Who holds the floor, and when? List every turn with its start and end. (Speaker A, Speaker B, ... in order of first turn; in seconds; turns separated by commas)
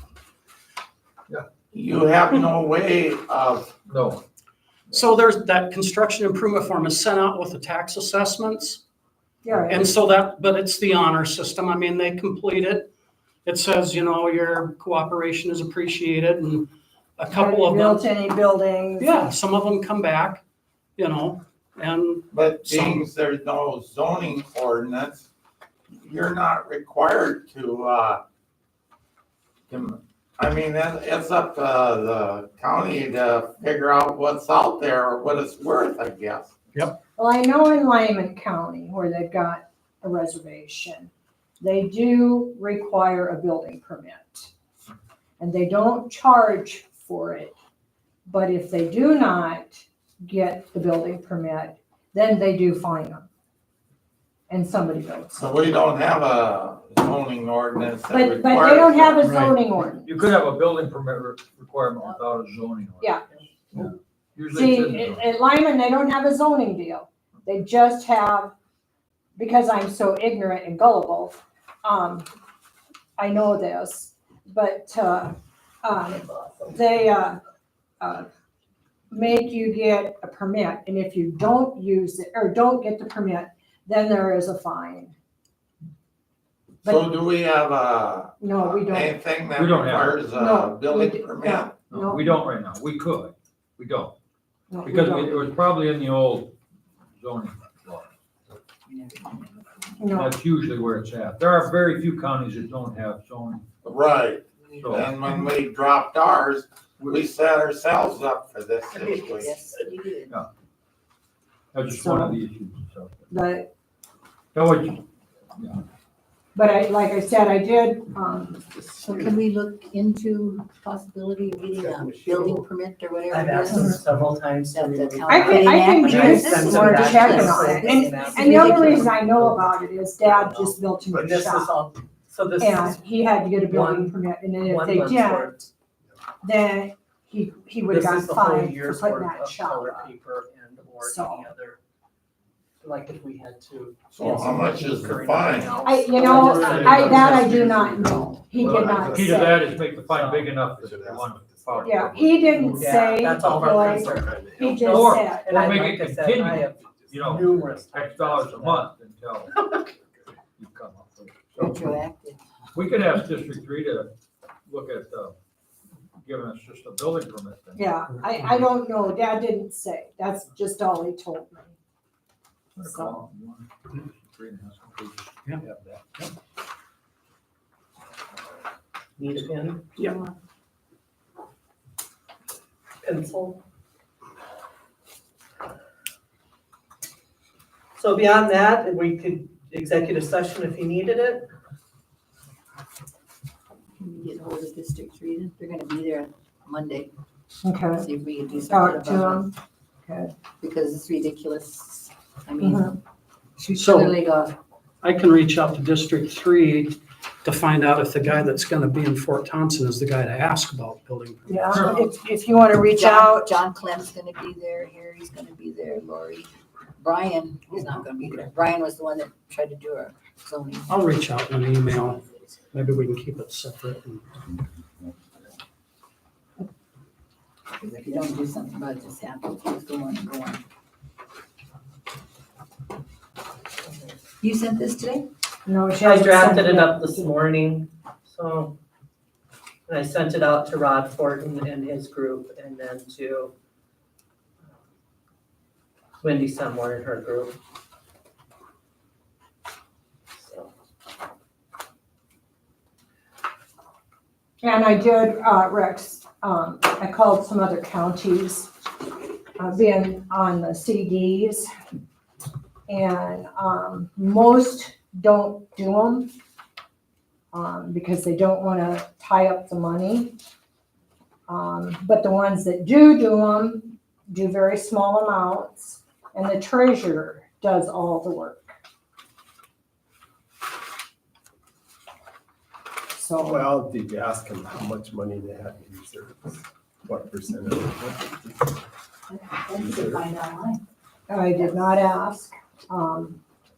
Speaker A: 1.7-3.7, Speaker B: 3.9-4.2, Speaker C: 4.9-8.8, Speaker D: 9.4-9.9, Speaker C: 9.7-12.9, Speaker C: 13.4-18.1, Speaker D: 17.3-19.4, Speaker C: 19.0-20.4, Speaker C: 21.0-23.1, Speaker A: 22.3-25.3, Speaker A: 25.9-28.2, Speaker A: 29.7-36.5, Speaker D: 37.2-44.5, Speaker D: 45.4-47.5, Speaker D: 48.3-53.3, Speaker D: 54.5-55.4, Speaker A: 55.4-59.4, Speaker D: 58.1-60.2, Speaker B: 59.3-59.5, Speaker B: 60.0-63.2, Speaker B: 63.7-65.3, Speaker D: 64.5-68.5, Speaker D: 69.4-72.3, Speaker D: 73.2-77.4, Speaker D: 78.0-78.3, Speaker D: 79.1-85.2, Speaker D: 86.8-87.1, Speaker A: 86.8-91.8, Speaker D: 88.4-89.2, Speaker B: 89.6-90.3, Speaker D: 90.3-92.4, Speaker B: 91.9-94.1, Speaker D: 94.7-95.5, Speaker B: 94.8-96.5, Speaker B: 97.2-98.1, Speaker E: 98.9-99.5, Speaker D: 100.0-100.3, Speaker B: 100.1-103.6, Speaker A: 103.8-109.6, Speaker B: 104.7-105.2, Speaker B: 107.0-107.3, Speaker E: 108.9-110.3, Speaker B: 111.7-113.2, Speaker D: 111.9-112.4, Speaker D: 113.3-113.7, Speaker B: 114.5-115.0, Speaker D: 116.5-118.6, Speaker E: 118.9-124.0, Speaker F: 121.8-122.7, Speaker G: 123.3-129.6, Speaker E: 124.7-129.1, Speaker D: 125.3-131.7, Speaker G: 130.2-133.1, Speaker D: 132.6-135.7, Speaker G: 133.7-135.6, Speaker D: 136.4-140.1, Speaker G: 137.9-141.8, Speaker D: 141.0-141.5, Speaker G: 142.8-148.0, Speaker A: 144.1-145.8, Speaker D: 145.8-149.6, Speaker F: 146.2-154.9, Speaker B: 148.6-152.3, Speaker G: 150.1-150.5, Speaker D: 151.8-155.6, Speaker G: 152.7-158.9, Speaker B: 154.8-159.6, Speaker F: 156.8-157.9, Speaker B: 160.6-161.9, Speaker E: 161.6-162.4, Speaker B: 162.7-164.1, Speaker B: 164.7-165.4, Speaker B: 166.2-167.9, Speaker D: 167.8-171.8, Speaker C: 168.1-168.7, Speaker B: 172.8-176.2, Speaker D: 172.8-173.2, Speaker G: 179.2-179.9, Speaker G: 183.0-183.6, Speaker G: 188.0-191.5, Speaker E: 194.0-197.1, Speaker D: 197.6-198.1, Speaker E: 198.0-199.5, Speaker D: 198.7-199.5, Speaker D: 200.1-200.3, Speaker E: 200.6-202.9, Speaker D: 202.6-202.9, Speaker E: 203.6-204.6, Speaker C: 203.8-204.1, Speaker C: 205.0-211.9, Speaker D: 211.5-213.5, Speaker E: 211.7-221.2, Speaker C: 220.9-222.2, Speaker C: 222.7-224.3, Speaker E: 227.7-230.6, Speaker E: 234.4-235.3, Speaker D: 235.7-237.3, Speaker G: 236.0-238.8, Speaker G: 239.9-243.5, Speaker G: 246.2-247.6, Speaker G: 250.4-250.7, Speaker D: 254.6-258.7, Speaker D: 259.6-261.7, Speaker D: 262.9-266.3, Speaker D: 267.5-270.4, Speaker D: 271.5-278.7, Speaker D: 283.1-283.6, Speaker F: 283.5-288.7, Speaker E: 289.3-290.8, Speaker F: 289.8-290.3, Speaker D: 291.3-293.4